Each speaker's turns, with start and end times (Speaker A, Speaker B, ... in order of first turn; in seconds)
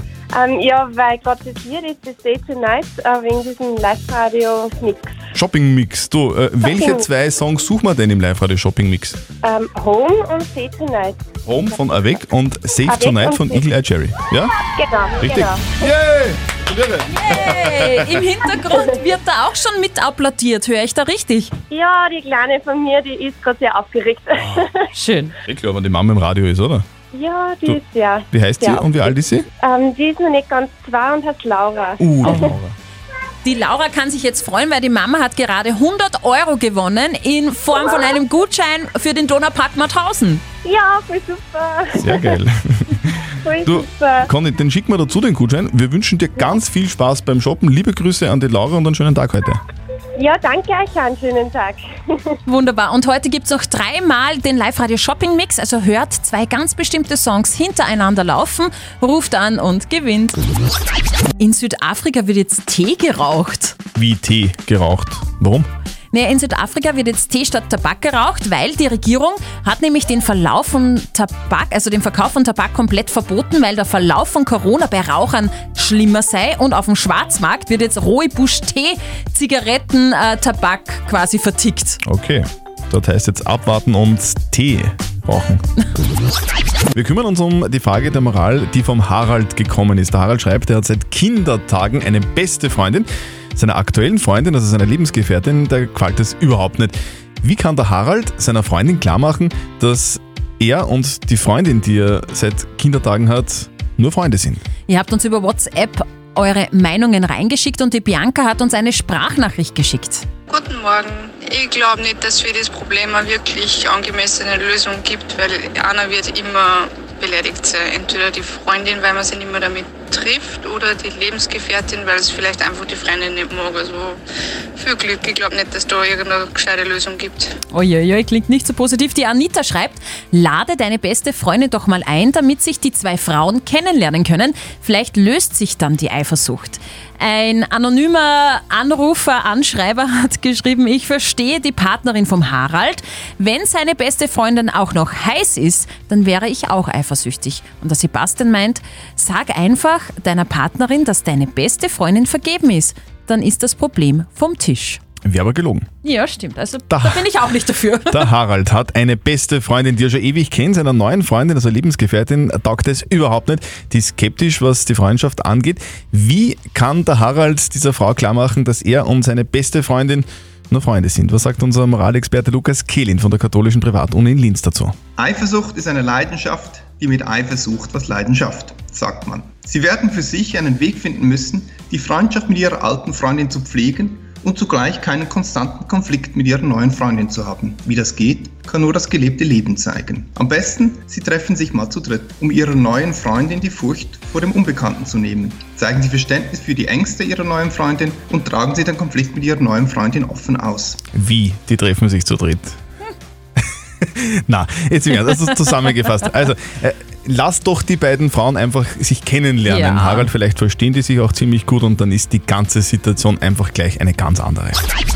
Speaker A: 0.3-5.1, 6.7-7.0, 9.4-11.2, 12.9-13.6, 14.7-15.7, 21.7-24.9, 27.1-32.5, 40.6-42.4, 43.4-44.3, 50.1-52.4
Speaker B: 5.3-9.2, 11.5-14.6, 15.2-18.2, 25.4-26.9, 28.3-29.5, 32.0-32.8, 42.0-49.6, 64.0-65.7, 82.0-85.6, 86.9-104.6, 155.2-155.9, 156.9-157.3, 158.1-174.9, 201.1-202.8, 204.0-214.8
Speaker C: 17.1-21.5, 24.9-25.4, 33.4-40.4, 52.5-60.4, 61.4-63.8, 66.1-82.0, 104.9-110.2, 127.7-155.0, 156.0-158.3, 209.7-210.3
Speaker D: 110.5-124.2, 124.8-127.5
Speaker E: 175.2-201.0